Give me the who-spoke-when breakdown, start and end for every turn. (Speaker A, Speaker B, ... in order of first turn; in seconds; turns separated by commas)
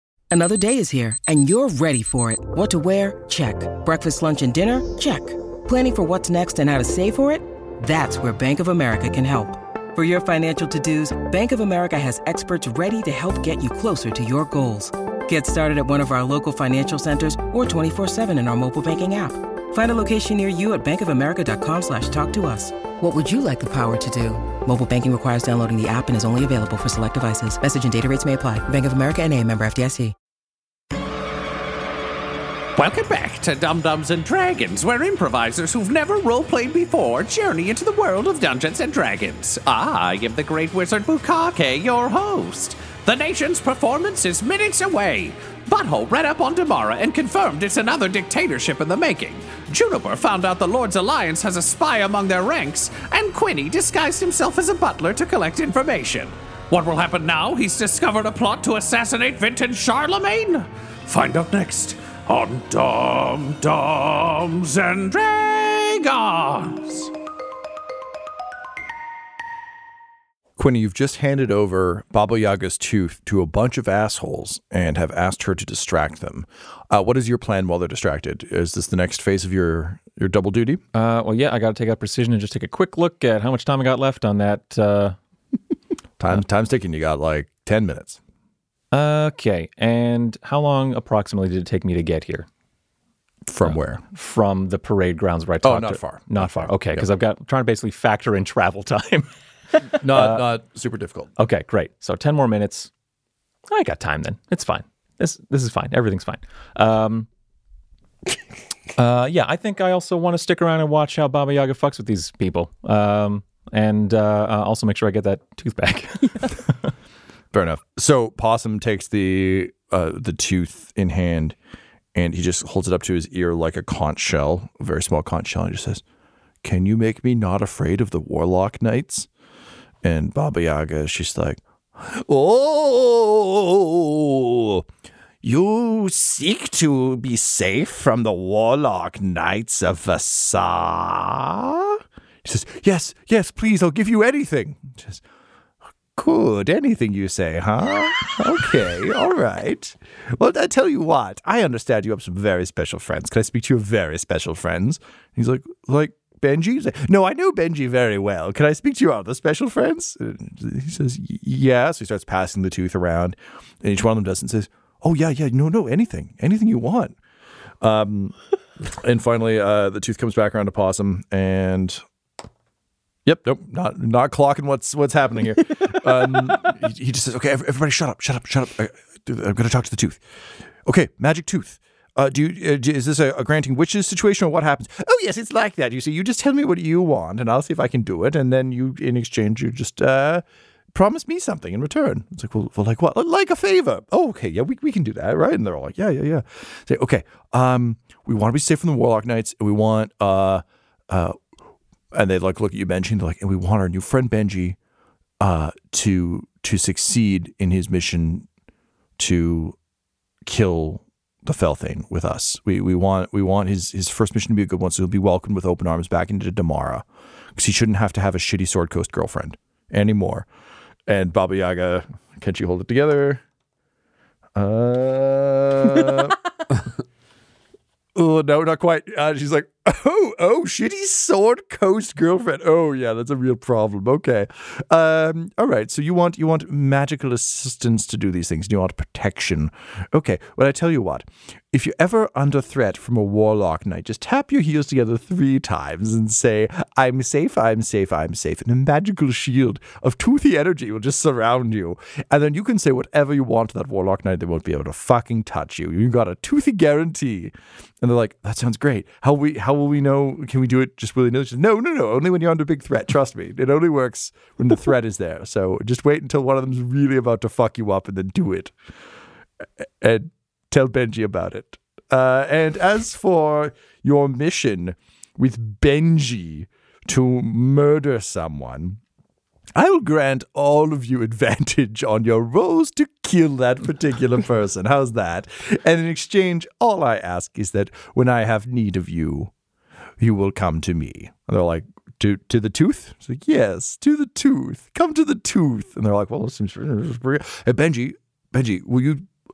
Speaker A: 0.3-30.1, Speaker B: 32.8-67.1, Speaker C: 70.6-80.8, Speaker D: 80.9-85.2, Speaker C: 86.2-88.2, Speaker D: 88.9-92.5, Speaker C: 93.5-94.0, Speaker D: 93.6-99.3, Speaker C: 95.6-97.0, Speaker D: 99.8-100.5, Speaker C: 100.0-101.3, Speaker D: 101.4-102.9, Speaker D: 103.7-107.3, Speaker D: 109.0-116.7, Speaker C: 117.5-121.6, Speaker C: 122.1-126.0, Speaker C: 126.6-129.3, Speaker C: 130.0-134.8, Speaker C: 135.4-145.2, Speaker C: 146.2-167.2, Speaker C: 167.8-168.3, Speaker C: 168.9-172.0, Speaker C: 173.2-180.2, Speaker C: 180.8-201.4, Speaker C: 202.1-204.8, Speaker C: 205.4-208.5, Speaker C: 209.2-209.8, Speaker C: 210.4-217.1, Speaker C: 217.6-220.5, Speaker C: 221.1-223.4, Speaker C: 224.6-226.4, Speaker C: 228.2-268.7, Speaker C: 270.0-279.0, Speaker C: 279.8-289.5, Speaker C: 290.2-299.3